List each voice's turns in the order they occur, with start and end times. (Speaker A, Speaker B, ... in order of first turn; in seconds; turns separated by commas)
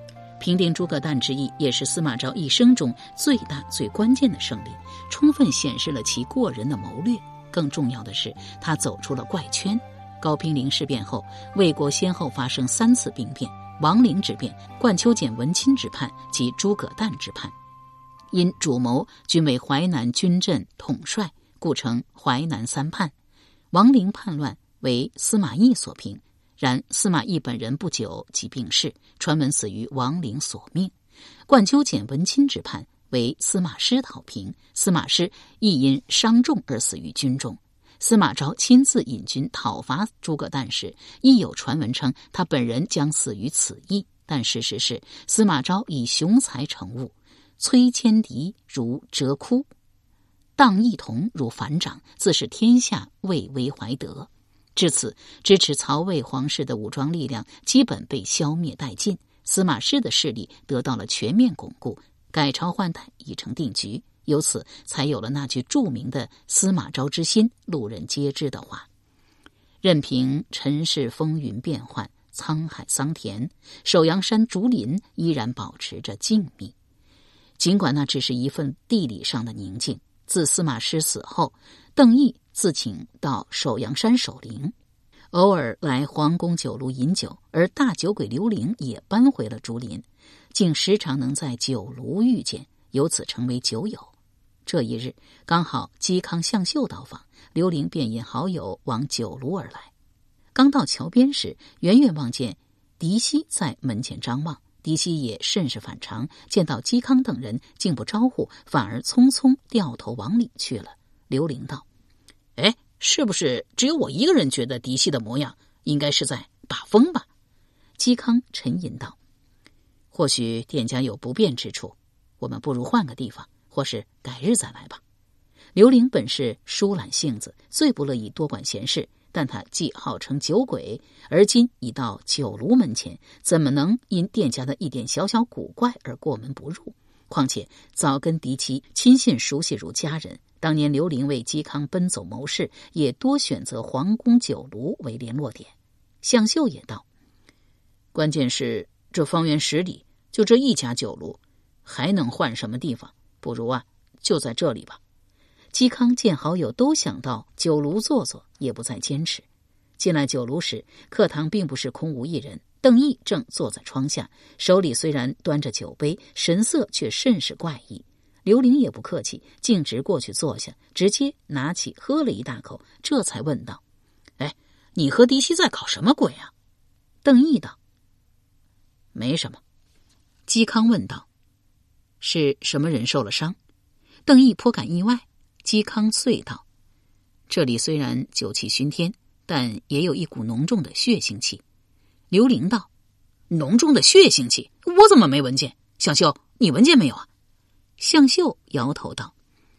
Speaker A: 0.4-17.5, Speaker A: 18.3-23.1, Speaker A: 23.7-30.9, Speaker A: 31.5-49.7, Speaker A: 50.6-68.9, Speaker A: 69.8-76.7, Speaker A: 77.6-84.7, Speaker A: 85.3-94.1, Speaker A: 94.7-99.9, Speaker A: 100.5-111.8, Speaker A: 112.6-117.3, Speaker A: 118.0-119.2, Speaker A: 120.1-125.0, Speaker A: 125.7-147.1, Speaker A: 148.1-155.0, Speaker A: 155.7-159.4, Speaker A: 160.0-173.8, Speaker A: 174.4-176.5, Speaker A: 177.2-177.8, Speaker A: 179.1-179.6, Speaker A: 180.5-181.3, Speaker A: 182.2-183.6, Speaker A: 184.3-186.6, Speaker A: 187.5-191.6, Speaker A: 192.3-192.9, Speaker A: 193.5-197.3, Speaker A: 198.0-199.3